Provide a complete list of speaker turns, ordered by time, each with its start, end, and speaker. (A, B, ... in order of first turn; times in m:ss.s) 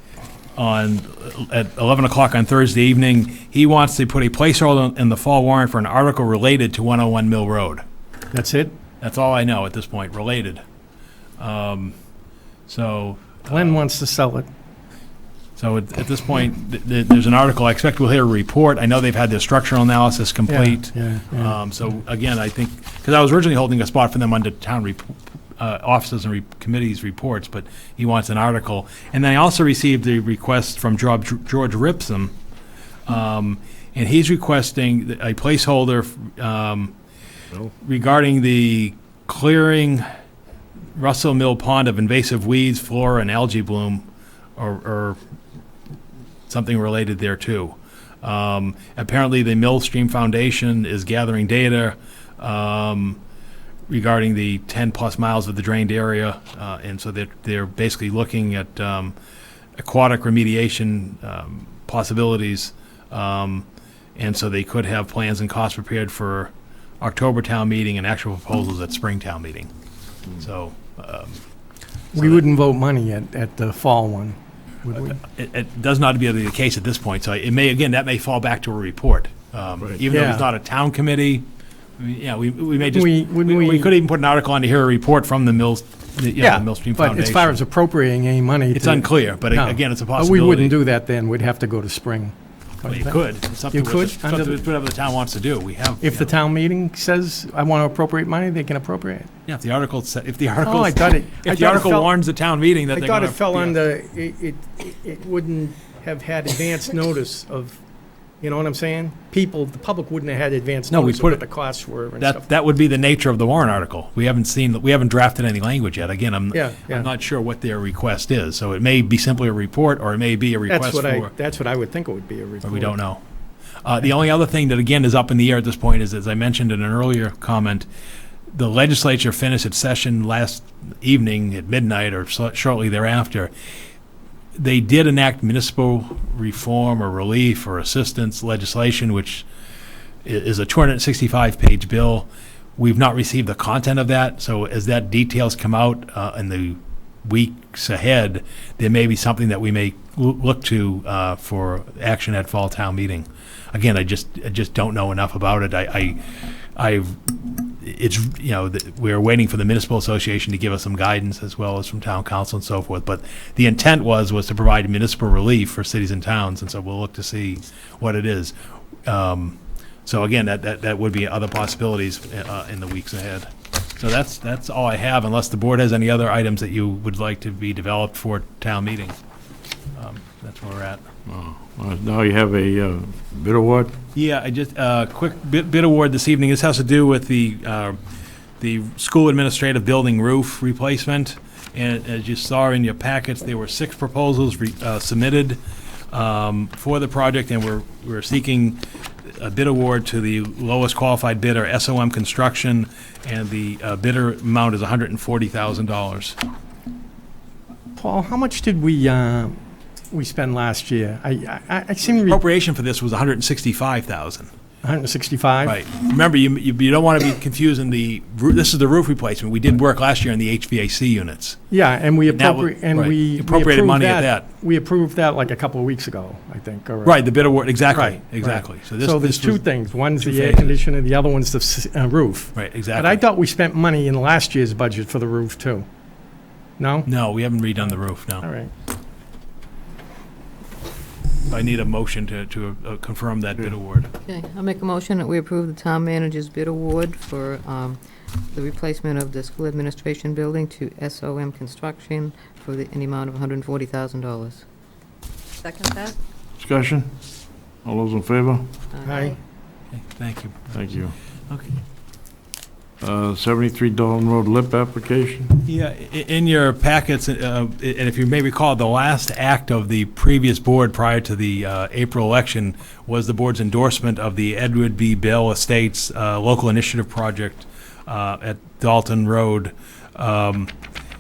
0:00.6-0:07.8 A
0:08.3-0:08.7 B
0:09.0-0:10.6 A
0:11.4-0:12.0 A
0:12.7-0:13.8 A
0:13.5-0:14.5 B
0:15.6-0:32.3 A
0:20.5-0:21.6 B
0:33.1-0:36.9 A
0:37.7-0:40.1 A
0:41.0-0:44.0 A
0:44.6-0:45.2 A
0:46.5-0:53.2 A
0:53.9-0:59.2 A
0:59.8-1:09.7 A
1:10.3-1:11.4 A
1:12.1-1:15.2 B
1:12.2-1:12.5 A
1:15.0-1:21.5 A
1:20.1-1:20.5 B
1:22.0-1:27.6 A
1:22.9-1:23.9 B
1:26.4-1:34.6 B
1:28.7-1:30.8 A
1:32.9-1:36.3 A
1:36.0-1:39.3 B
1:39.5-1:43.8 A
1:40.6-1:42.1 B
1:42.9-1:47.8 B
1:48.4-1:52.5 B
1:50.9-1:51.4 A
1:52.2-2:01.3 A
1:56.5-1:57.1 B
2:00.7-2:03.0 B
2:02.6-2:03.2 A
2:03.8-2:07.9 A
2:08.5-2:13.5 A
2:14.6-2:19.4 A
2:20.2-2:48.6 A
2:49.1-2:59.2 A
3:00.0-3:01.0 A
3:01.3-3:04.0 C
3:04.2-3:08.0 A
3:08.6-3:15.6 A
3:16.1-3:26.4 A
3:28.0-3:29.6 B
3:30.1-3:32.4 B
3:32.1-3:34.5 A
3:34.8-3:35.8 B
3:35.6-3:41.6 A
3:41.7-3:47.2 B
3:42.3-3:44.5 A
3:47.0-3:49.6 A
3:47.9-3:55.9 B
3:50.2-3:50.8 A
3:52.6-3:53.2 A
3:56.8-3:57.1 B
3:57.1-3:58.4 A
3:58.4-3:58.7 B
4:01.5-4:04.1 A
4:04.3-4:08.0 D
4:08.5-4:14.6 D
4:15.6-4:16.2 D
4:16.6-4:17.2 C
4:17.8-4:18.7 C
4:19.0-4:19.4 D
4:19.0-4:19.4 B
4:19.9-4:20.8 A
4:20.7-4:21.1 C
4:23.0-4:25.6 C
4:25.6-4:40.7 A